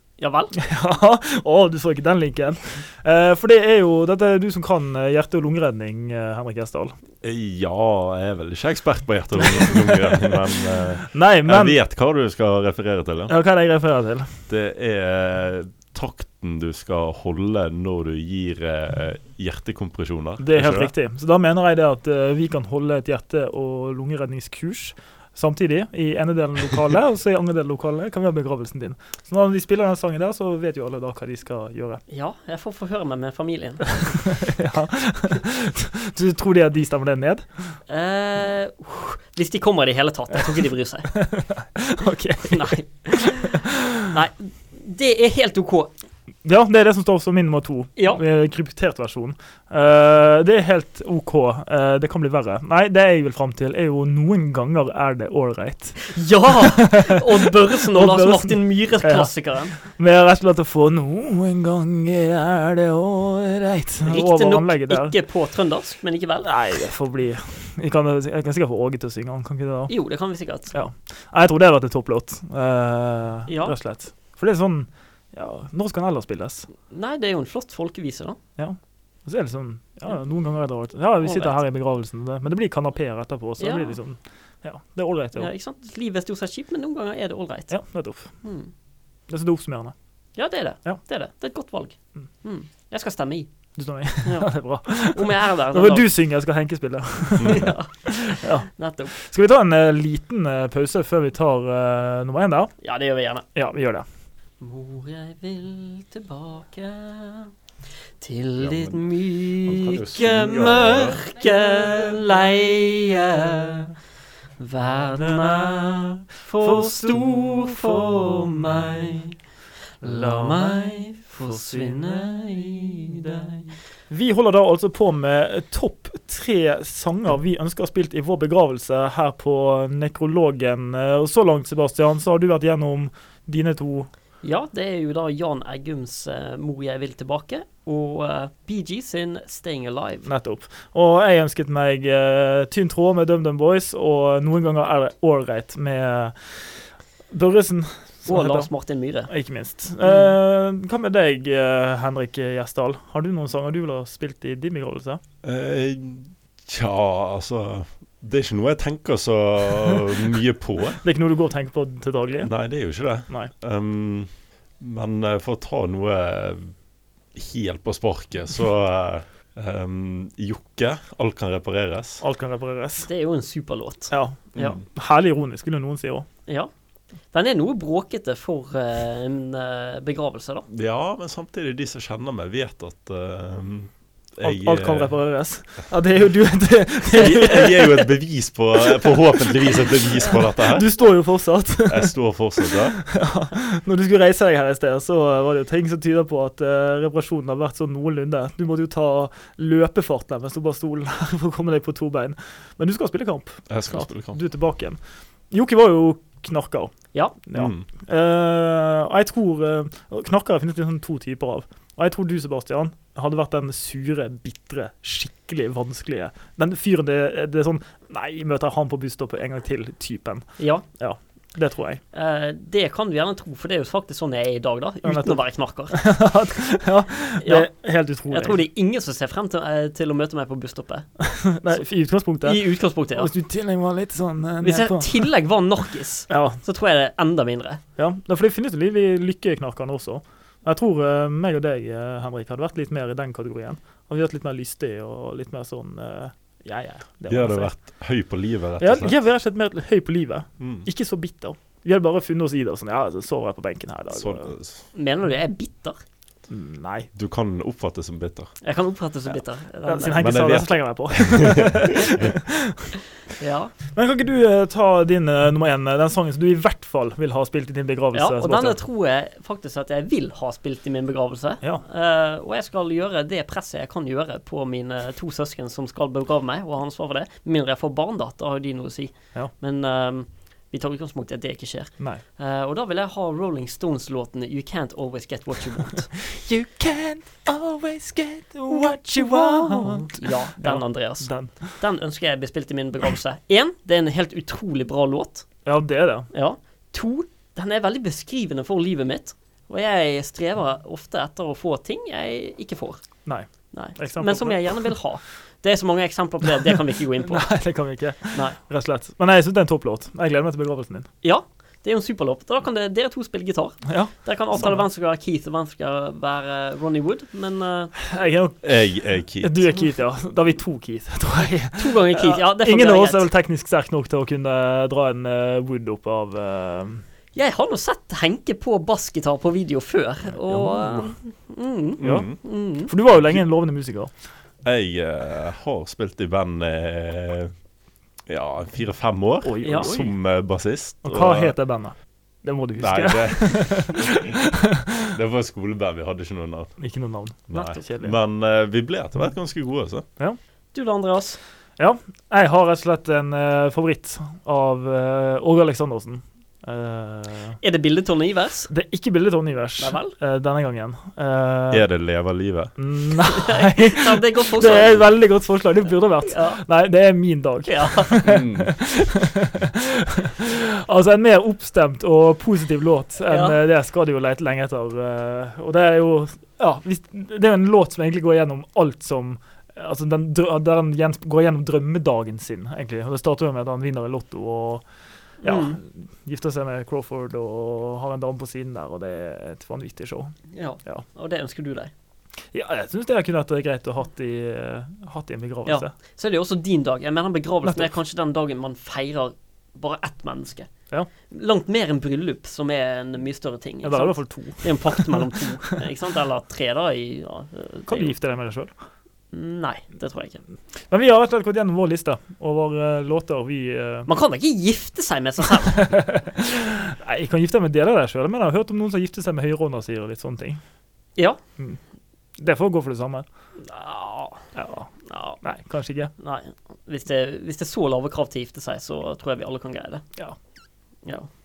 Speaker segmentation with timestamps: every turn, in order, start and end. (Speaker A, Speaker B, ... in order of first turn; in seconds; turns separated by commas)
Speaker A: 0.2-0.5, Speaker B: 0.6-6.9, Speaker C: 7.2-13.3, Speaker B: 9.6-10.2, Speaker B: 11.1-11.8, Speaker B: 13.3-14.3, Speaker C: 14.5-20.9, Speaker B: 20.4-32.0, Speaker A: 32.1-33.9, Speaker B: 34.1-37.8, Speaker A: 37.9-41.1, Speaker B: 41.1-43.7, Speaker A: 42.5-45.9, Speaker B: 46.4-65.1, Speaker A: 48.0-48.2, Speaker A: 56.1-59.7, Speaker A: 64.0-66.5, Speaker B: 66.4-69.9, Speaker A: 69.9-70.7, Speaker B: 70.7-76.7, Speaker A: 73.5-73.7, Speaker A: 76.8-78.4, Speaker B: 78.6-85.5, Speaker A: 81.2-81.6, Speaker A: 83.6-84.0, Speaker A: 85.3-87.7, Speaker B: 87.7-88.3, Speaker A: 88.4-88.7, Speaker B: 89.3-89.9, Speaker A: 90.3-93.5, Speaker B: 93.8-102.7, Speaker A: 94.2-94.5, Speaker A: 95.0-96.1, Speaker C: 97.4-97.7, Speaker A: 97.4-99.1, Speaker A: 102.8-103.5, Speaker B: 103.5-104.0, Speaker A: 104.6-107.5, Speaker A: 108.2-113.9, Speaker C: 108.6-109.1, Speaker C: 109.6-111.2, Speaker A: 114.6-119.3, Speaker A: 120.0-123.7, Speaker B: 124.1-134.1, Speaker A: 134.4-140.3, Speaker B: 140.2-148.7, Speaker A: 148.2-149.3, Speaker B: 149.3-155.2, Speaker C: 155.4-161.0, Speaker B: 161.0-162.5, Speaker C: 162.4-166.7, Speaker C: 167.3-172.2, Speaker B: 172.2-173.1, Speaker A: 173.1-174.8, Speaker B: 174.1-176.2, Speaker A: 177.3-180.7, Speaker C: 180.7-185.1, Speaker B: 184.4-188.1, Speaker C: 187.1-190.9, Speaker B: 189.0-189.3, Speaker B: 190.2-205.0, Speaker C: 191.8-193.0, Speaker C: 203.7-204.4, Speaker B: 205.5-206.9, Speaker B: 207.4-222.0, Speaker C: 207.5-207.8, Speaker A: 220.6-220.8, Speaker A: 222.1-226.0, Speaker B: 225.0-228.6, Speaker A: 227.4-227.7, Speaker A: 228.3-231.1, Speaker B: 231.2-235.3, Speaker A: 232.4-233.3, Speaker A: 234.6-237.8, Speaker B: 236.3-236.6, Speaker B: 238.0-247.8, Speaker C: 247.3-249.1, Speaker B: 248.8-254.5, Speaker C: 250.6-250.9, Speaker C: 254.1-254.8, Speaker A: 254.9-256.0, Speaker B: 256.5-257.1, Speaker C: 257.1-258.5, Speaker A: 258.6-260.3, Speaker B: 259.9-263.0, Speaker C: 260.2-262.3, Speaker A: 263.4-263.7, Speaker B: 263.9-268.8, Speaker A: 268.1-286.1, Speaker B: 286.3-291.8, Speaker A: 289.3-295.4, Speaker B: 295.6-296.3, Speaker A: 296.3-303.0, Speaker B: 303.2-305.0, Speaker A: 303.7-307.5, Speaker B: 307.2-311.1, Speaker A: 311.2-317.9, Speaker B: 313.9-314.8, Speaker B: 318.0-327.0, Speaker C: 318.6-319.7, Speaker A: 321.8-323.2, Speaker A: 327.3-332.9, Speaker C: 332.0-332.4, Speaker B: 332.0-334.1, Speaker C: 334.6-337.5, Speaker C: 338.3-341.5, Speaker B: 339.4-340.1, Speaker A: 339.6-339.9, Speaker B: 341.0-344.5, Speaker C: 342.8-344.2, Speaker C: 345.1-346.7, Speaker B: 346.8-348.1, Speaker C: 347.5-350.0, Speaker A: 347.5-347.8, Speaker A: 350.7-351.4, Speaker B: 351.8-357.6, Speaker A: 357.6-358.7, Speaker B: 358.7-361.8, Speaker A: 359.8-360.1, Speaker C: 361.7-362.7, Speaker B: 362.8-384.8, Speaker A: 363.3-365.0, Speaker A: 366.2-366.6, Speaker A: 367.6-368.2, Speaker C: 368.2-368.7, Speaker A: 373.3-373.6, Speaker B: 385.4-390.3, Speaker A: 385.4-385.8, Speaker A: 390.5-391.9, Speaker B: 392.5-395.9, Speaker A: 395.6-400.7, Speaker A: 401.3-408.1, Speaker B: 403.8-405.8, Speaker B: 407.9-408.7, Speaker A: 409.3-410.4, Speaker B: 410.9-414.1, Speaker A: 414.1-415.9, Speaker B: 415.7-420.6, Speaker B: 422.4-423.2, Speaker A: 423.6-424.4, Speaker B: 424.5-426.1, Speaker A: 425.1-425.4, Speaker A: 426.2-430.0